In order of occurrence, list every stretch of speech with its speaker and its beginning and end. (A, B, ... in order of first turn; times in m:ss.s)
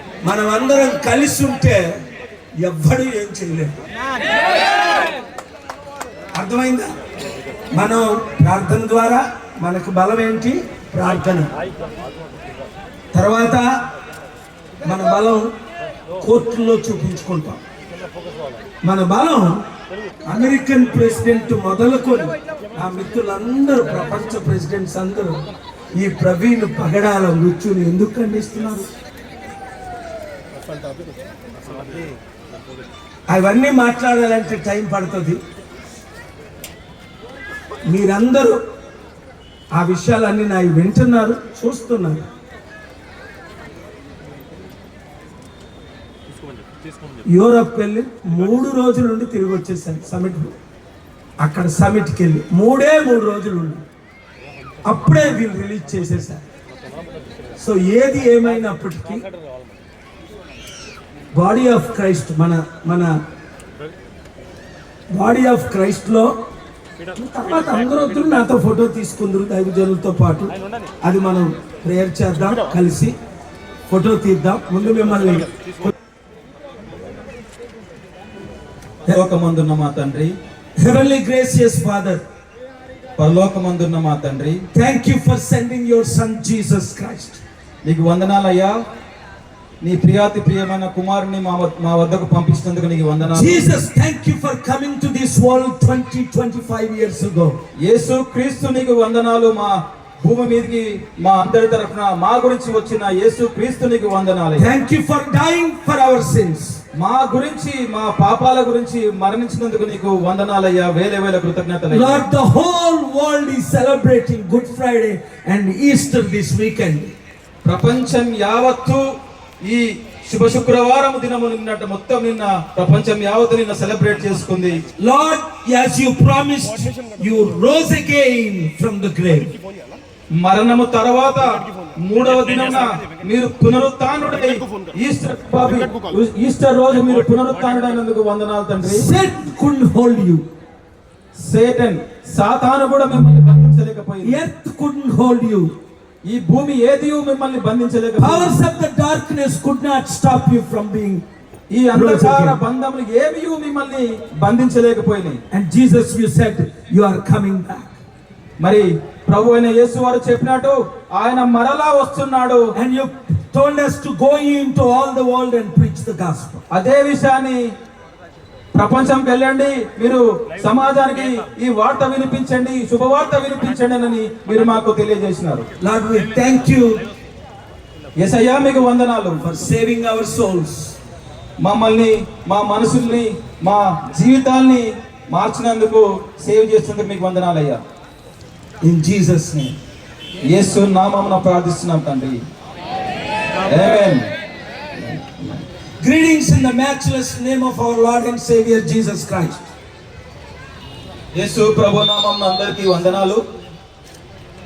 0:00.2-0:02.0 A
0:02.6-0:03.8 A
0:06.3-0:06.9 A
0:07.7-0:11.5 A
0:13.1-0:13.7 A
0:14.8-0:15.5 A
0:16.2-0:17.6 A
0:18.8-0:19.6 A
0:20.2-0:25.4 A
0:25.9-0:28.9 A
0:33.3-0:35.4 A
0:37.8-0:38.6 A
0:39.7-0:42.2 A
0:47.3-0:50.6 A
0:51.4-0:53.8 A
0:54.8-0:56.4 A
0:57.6-0:59.2 A
1:01.3-1:03.1 A
1:05.1-1:06.3 A
1:07.1-1:13.2 A
1:13.9-1:15.9 A
1:19.1-1:20.3 B
1:20.8-1:22.2 A
1:23.2-1:24.6 B
1:24.7-1:27.4 A
1:27.8-1:28.8 B
1:29.8-1:33.7 B
1:33.3-1:37.6 A
1:37.8-1:44.7 B
1:44.6-1:46.8 A
1:46.9-1:52.2 B
1:51.9-1:57.1 A
1:57.6-1:59.0 B
1:59.6-2:04.8 B
2:05.0-2:09.5 A
2:10.4-2:19.1 B
2:18.8-2:20.4 A
2:21.4-2:24.4 B
2:24.2-2:25.7 A
2:26.2-2:28.6 B
2:28.2-2:31.2 A
2:31.7-2:35.4 B
2:31.9-2:32.6 A
2:35.5-2:38.0 A
2:38.6-2:42.7 B
2:42.7-2:46.6 A
2:46.7-2:47.7 B
2:48.7-2:55.7 B
2:55.8-2:57.0 A
2:58.2-2:59.4 B
2:59.4-3:01.0 A
3:01.6-3:07.8 B
3:08.8-3:09.8 A
3:10.5-3:12.4 B
3:13.6-3:14.3 B
3:15.0-3:15.4 B
3:16.0-3:19.6 A
3:21.3-3:23.4 B